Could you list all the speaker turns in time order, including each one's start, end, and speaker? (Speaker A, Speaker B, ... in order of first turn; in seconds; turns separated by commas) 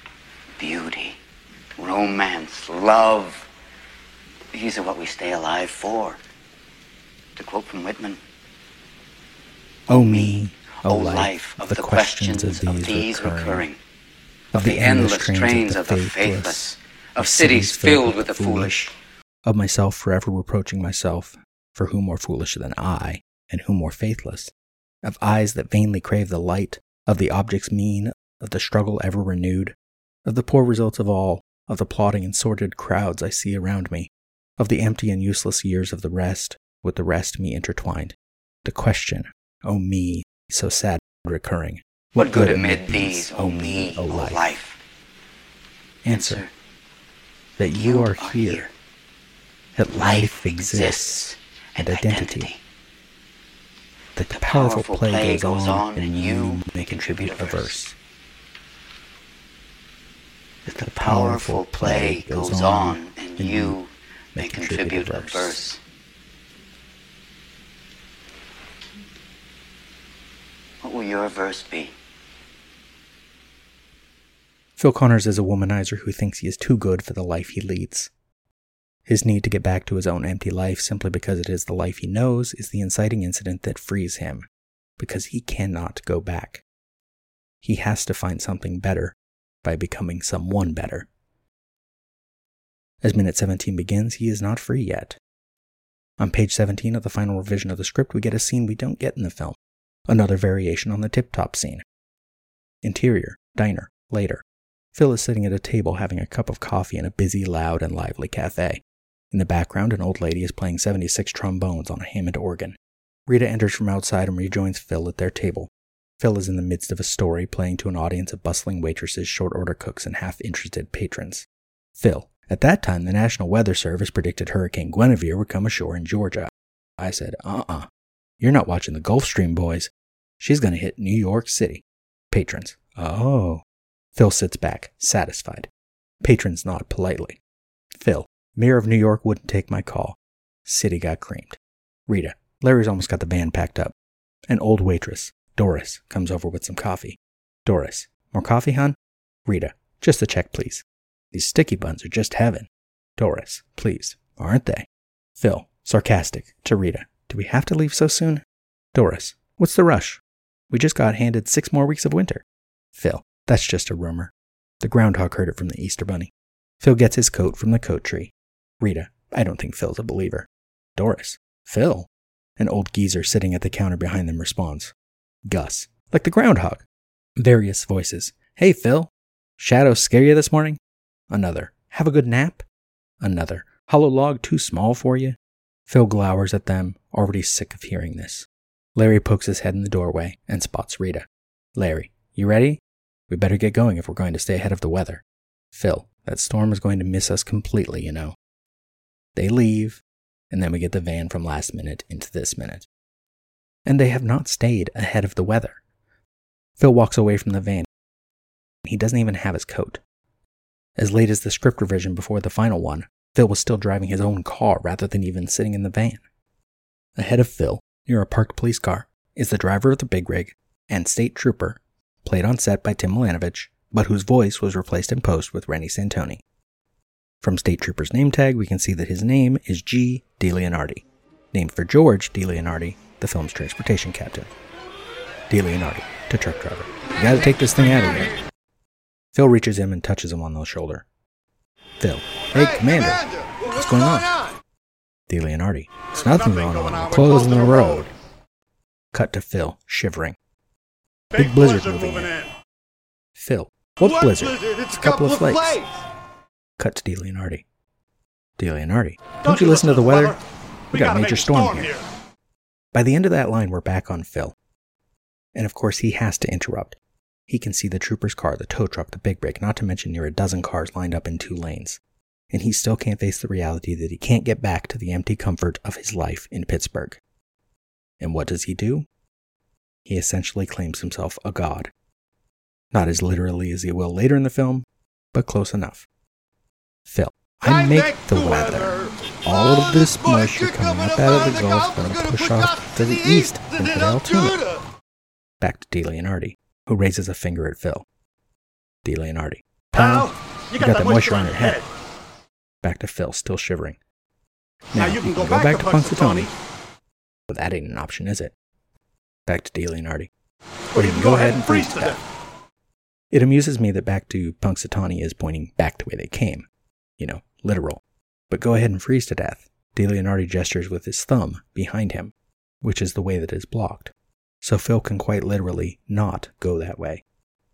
Speaker A: 0.6-1.2, Speaker A: 1.8-3.5, Speaker A: 4.5-6.2, Speaker A: 7.3-8.2, Speaker A: 9.9-13.8, Speaker B: 9.9-13.6, Speaker B: 14.5-18.7, Speaker A: 14.5-18.9, Speaker B: 19.4-24.5, Speaker B: 25.0-44.5, Speaker A: 42.2-44.8, Speaker B: 46.0-46.4, Speaker A: 46.1-46.5, Speaker B: 47.6-48.7, Speaker A: 47.8-48.7, Speaker B: 49.8-52.5, Speaker A: 49.9-52.6, Speaker B: 54.1-57.9, Speaker A: 54.3-57.8, Speaker B: 60.6-63.8, Speaker A: 61.0-65.8, Speaker B: 64.3-65.6, Speaker A: 70.8-71.9, Speaker B: 74.8-78.1, Speaker B: 79.0-84.5, Speaker B: 85.0-86.6, Speaker B: 87.6-91.1, Speaker B: 93.0-95.2, Speaker B: 96.2-99.5, Speaker B: 100.1-101.8, Speaker B: 102.8-104.4, Speaker B: 104.9-121.5, Speaker B: 122.0-127.9, Speaker B: 128.4-133.6, Speaker B: 134.1-135.7, Speaker B: 136.2-137.4, Speaker B: 137.9-143.9, Speaker B: 144.5-154.8, Speaker B: 155.4-158.4, Speaker B: 158.9-162.4, Speaker B: 162.9-174.9, Speaker B: 175.4-176.8, Speaker B: 177.4-180.8, Speaker B: 181.3-182.6, Speaker B: 183.2-185.4, Speaker B: 185.9-198.3, Speaker B: 199.3-202.8, Speaker B: 203.8-205.8, Speaker B: 206.8-207.9, Speaker B: 208.8-210.0, Speaker B: 211.0-216.2, Speaker B: 217.2-226.4, Speaker B: 227.4-234.5, Speaker B: 235.5-238.3, Speaker B: 239.3-241.0, Speaker B: 242.0-244.4, Speaker B: 245.3-248.1, Speaker B: 249.1-250.3, Speaker B: 251.3-252.4, Speaker B: 253.3-255.8, Speaker B: 256.8-257.6, Speaker B: 258.6-260.4, Speaker B: 260.9-262.0, Speaker B: 262.9-264.5, Speaker B: 265.5-266.9, Speaker B: 267.5-272.0, Speaker B: 272.5-277.2, Speaker B: 278.2-279.1, Speaker B: 280.1-281.9, Speaker B: 282.9-286.1, Speaker B: 287.1-294.6, Speaker B: 295.6-298.0, Speaker B: 299.0-301.8, Speaker B: 302.8-304.0, Speaker B: 304.9-306.5, Speaker B: 307.5-308.5, Speaker B: 309.5-310.3, Speaker B: 310.9-312.2, Speaker B: 313.3-316.6, Speaker B: 317.2-327.2